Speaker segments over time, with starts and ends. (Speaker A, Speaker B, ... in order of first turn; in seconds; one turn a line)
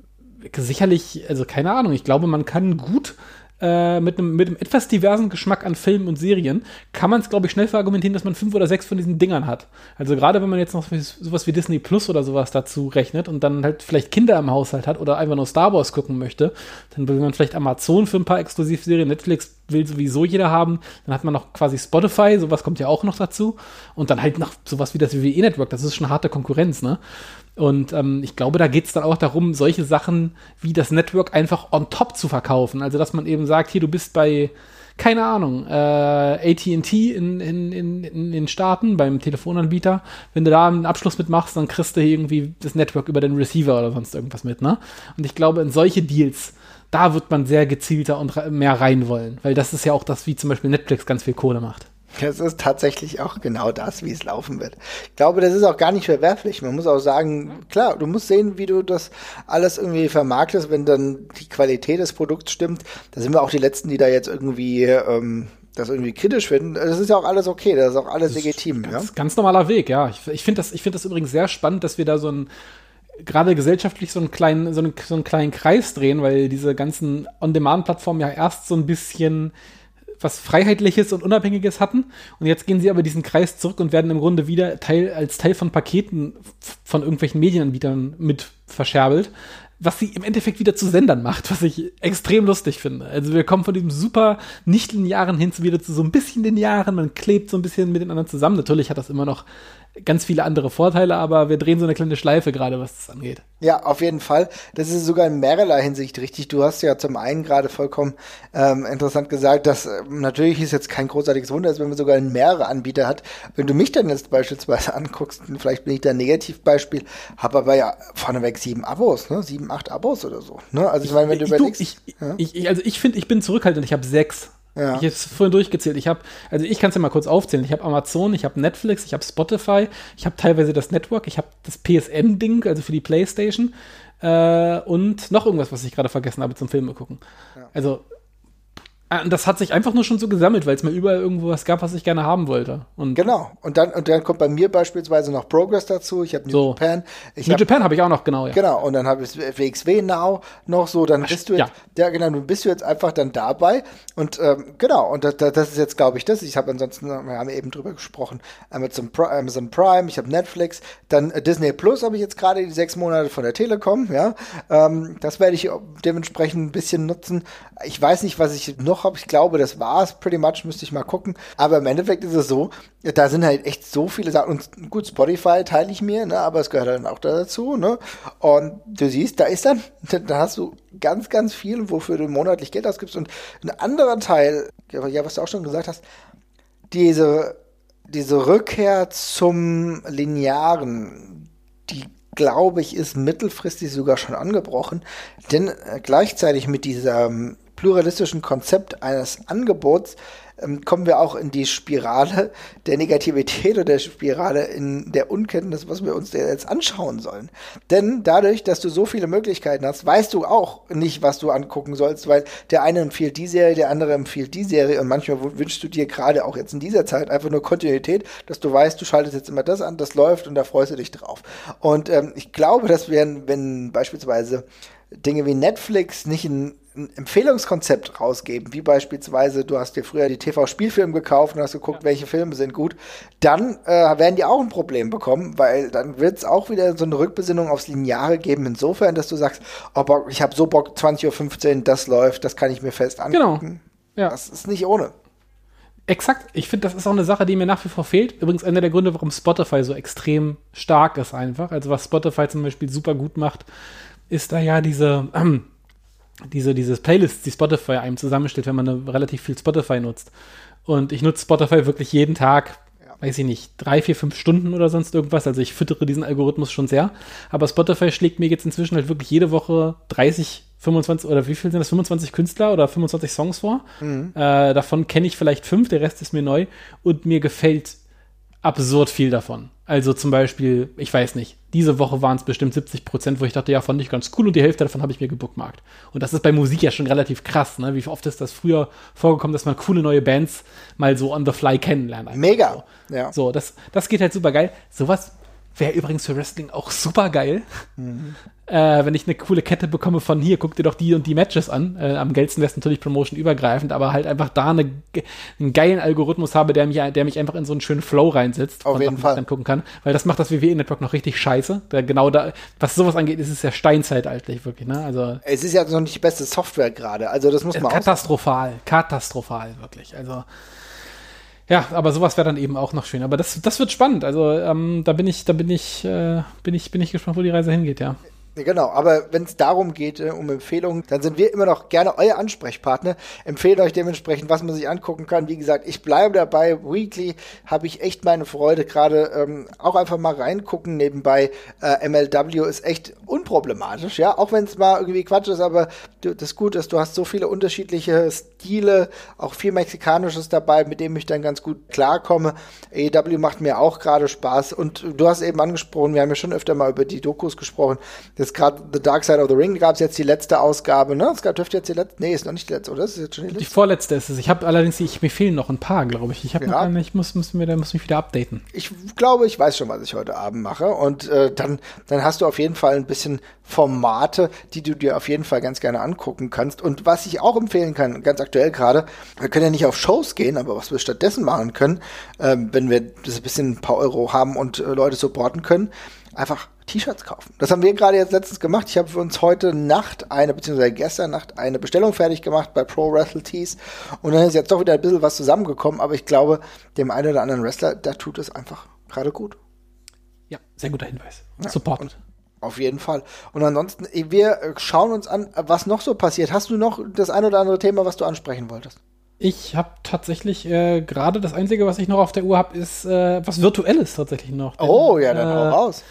Speaker A: 0.5-27.0
Speaker A: 27.6-51.9
Speaker B: 52.2-69.1
Speaker A: 68.3-72.5
Speaker A: 73.2-79.5
Speaker A: 80.2-99.4
Speaker A: 100.0-103.4
Speaker B: 103.6-122.4
Speaker A: 121.0-137.2
Speaker B: 124.8-125.0
Speaker A: 137.7-138.0
Speaker A: 139.1-143.2
Speaker B: 143.1-147.6
Speaker A: 146.5-146.8
Speaker A: 147.4-148.6
Speaker B: 148.5-186.0
Speaker A: 151.3-151.7
Speaker B: 186.9-187.6
Speaker B: 188.1-245.1
Speaker A: 243.3-243.6
Speaker A: 246.1-253.6
Speaker A: 254.3-255.7
Speaker A: 256.5-260.3
Speaker A: 260.9-278.0
Speaker B: 274.0-274.3
Speaker A: 278.6-297.8
Speaker B: 292.3-293.3
Speaker B: 298.0-298.4
Speaker A: 298.7-315.4
Speaker B: 308.8-309.4
Speaker B: 315.4-318.2
Speaker A: 317.7-320.4
Speaker A: 321.7-328.2
Speaker B: 328.6-363.7
Speaker A: 363.5-368.6
Speaker B: 366.6-366.9
Speaker B: 368.7-399.6
Speaker A: 400.5-402.1
Speaker B: 401.6-402.1
Speaker B: 402.6-409.0
Speaker A: 409.4-415.8
Speaker B: 414.8-416.0